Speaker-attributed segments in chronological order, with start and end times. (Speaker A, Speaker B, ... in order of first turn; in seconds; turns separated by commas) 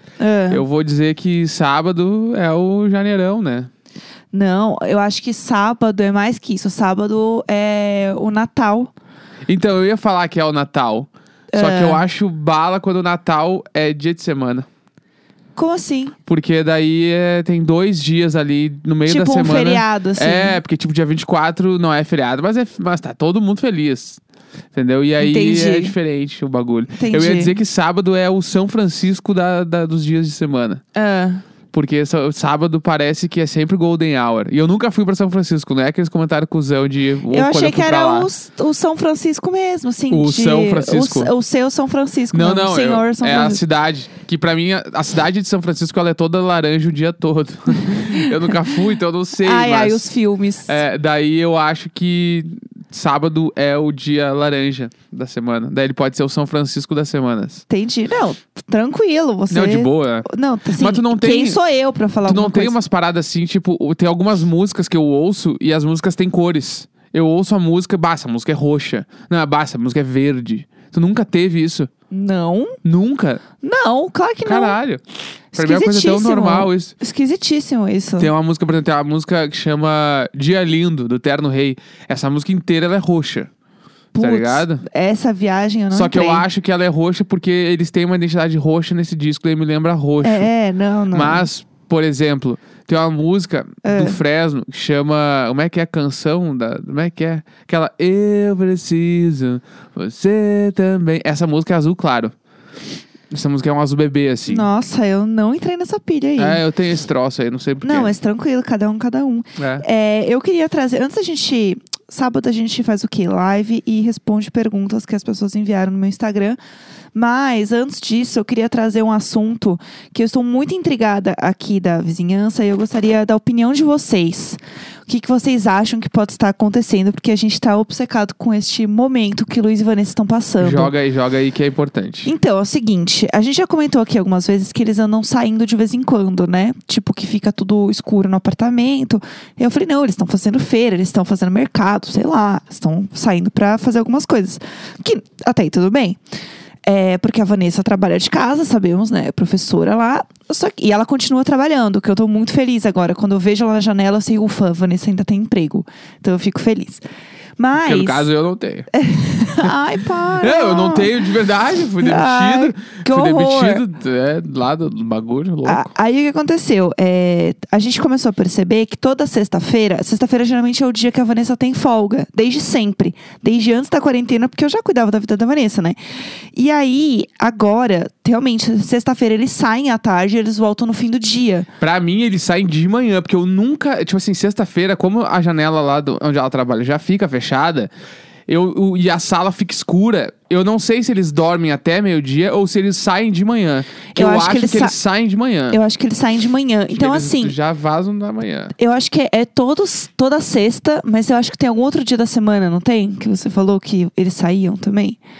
Speaker A: 0.2-0.6, Speaker B: 0.5-3.7, Speaker A: 4.3-8.9, Speaker B: 9.5-14.7, Speaker A: 11.5-12.0, Speaker A: 15.6-16.2, Speaker B: 16.3-24.2, Speaker A: 19.1-20.6, Speaker B: 24.7-30.8, Speaker A: 25.2-25.9, Speaker A: 26.9-27.6, Speaker A: 30.9-31.4, Speaker B: 31.7-38.3, Speaker A: 37.3-43.6, Speaker B: 40.1-41.3, Speaker B: 42.3-50.1, Speaker A: 47.7-48.5, Speaker A: 49.4-50.8, Speaker B: 50.6-57.6, Speaker A: 57.7-62.8, Speaker B: 59.5-61.6, Speaker B: 62.2-71.9, Speaker A: 72.1-72.8, Speaker B: 72.8-73.4, Speaker A: 73.6-74.8, Speaker B: 74.4-75.0, Speaker A: 75.5-78.3, Speaker B: 75.5-76.9, Speaker B: 78.2-83.5, Speaker A: 84.1-86.4, Speaker B: 84.2-84.8, Speaker B: 85.9-90.5, Speaker A: 90.2-91.5, Speaker B: 91.1-102.3, Speaker A: 93.8-94.2, Speaker B: 103.3-104.7, Speaker A: 104.5-106.6, Speaker B: 106.4-108.1, Speaker A: 107.8-116.6, Speaker B: 109.6-109.8, Speaker A: 117.1-130.9, Speaker B: 130.6-132.3, Speaker A: 132.2-146.2, Speaker A: 146.8-157.0, Speaker A: 157.6-158.3, Speaker B: 157.7-158.9, Speaker A: 158.9-161.1, Speaker B: 160.4-165.9, Speaker A: 162.0-163.8, Speaker A: 165.6-176.0, Speaker A: 176.5-181.7, Speaker B: 181.8-187.9, Speaker B: 188.5-195.8, Speaker A: 194.1-194.9, Speaker A: 195.7-197.6, Speaker B: 196.9-198.7, Speaker A: 198.8-205.2